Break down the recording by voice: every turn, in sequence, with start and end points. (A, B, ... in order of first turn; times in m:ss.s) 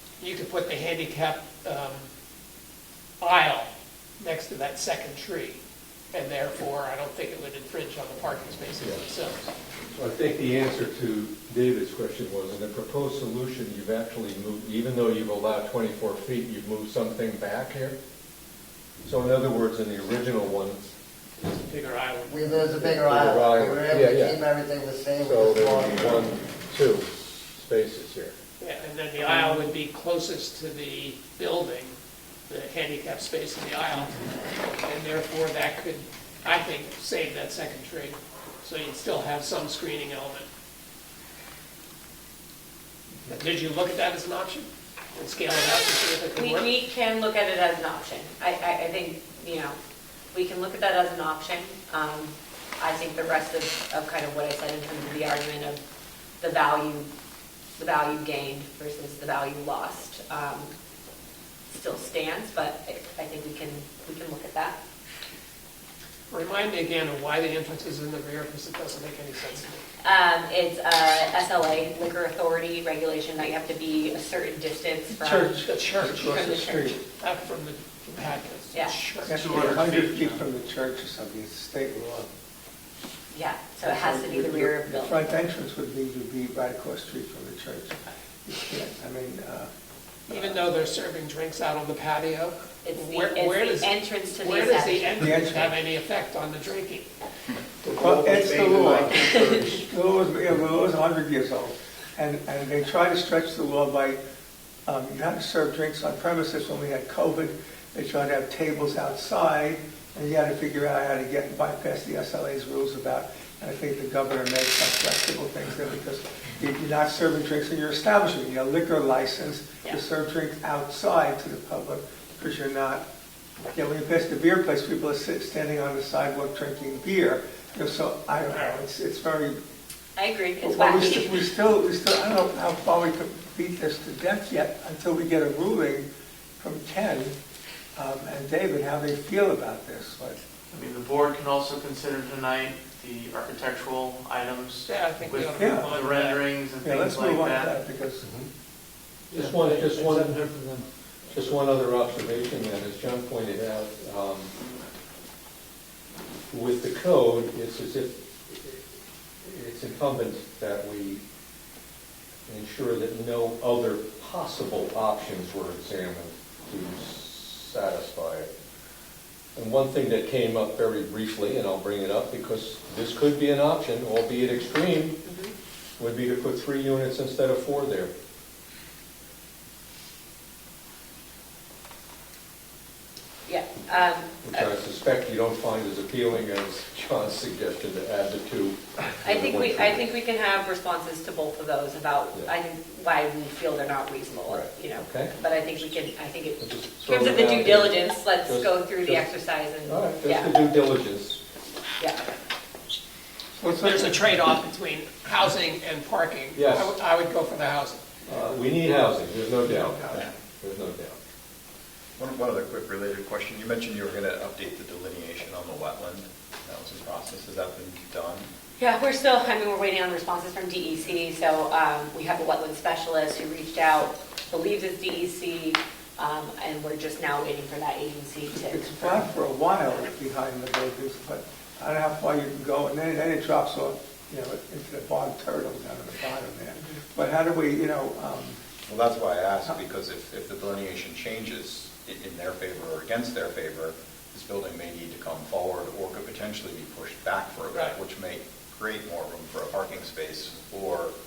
0:00.2-0:02.1 A
0:03.2-0:03.7 A
0:04.2-0:05.6 A
0:06.1-0:09.4 A
0:09.9-0:18.0 B
0:19.0-0:20.9 B
0:21.4-0:22.9 A
0:22.2-0:26.3 C
0:22.9-0:24.4 B
0:25.2-0:28.3 B
0:28.6-0:32.0 A
0:32.5-0:40.5 A
0:43.3-0:46.7 A
0:46.4-0:49.8 D
0:50.3-0:55.8 D
0:56.4-0:57.1 D
0:57.8-1:00.7 D
1:01.7-1:04.8 D
1:06.3-1:09.8 A
1:10.0-1:15.6 D
1:15.1-1:17.0 E
1:15.6-1:16.3 A
1:16.2-1:17.0 D
1:17.2-1:19.4 A
1:18.7-1:19.0 D
1:19.2-1:22.3 E
1:19.3-1:20.4 F
1:23.3-1:25.2 D
1:23.8-1:29.7 E
1:30.3-1:30.7 E
1:30.3-1:37.1 A
1:32.8-1:35.2 D
1:35.2-1:35.8 E
1:37.8-1:39.8 F
1:37.9-1:44.2 E
1:39.2-1:39.6 D
1:44.8-2:03.0 E
2:03.7-2:09.6 E
2:08.5-2:08.8 A
2:10.2-2:11.4 D
2:10.6-2:16.0 E
2:16.6-2:17.4 E
2:17.9-2:20.4 E
2:20.7-2:27.8 F
2:24.8-2:26.4 A
2:25.5-2:26.0 E
2:26.8-2:28.2 E
2:29.3-2:30.5 B
2:29.4-2:30.8 F
2:31.3-2:34.5 B
2:36.5-2:38.8 B
2:39.4-2:41.2 B
2:42.5-2:48.5 B
2:49.6-2:55.2 B
2:55.2-2:55.5 D
2:56.0-2:58.1 B
3:03.5-3:04.7 D
3:04.4-3:10.1 B
3:09.2-3:20.6 D
3:14.5-3:15.3 B
3:16.6-3:19.3 B
3:19.8-3:21.4 B
3:22.0-3:22.3 D
3:23.6-3:24.2 E
3:23.8-3:28.0 A
3:26.5-3:26.9 B
3:28.3-3:31.2 B
3:32.2-3:38.5 G
3:38.8-3:49.2 D
3:48.5-3:58.6 E
3:56.8-3:57.0 D
3:58.8-4:11.1 G
4:07.7-4:08.0 A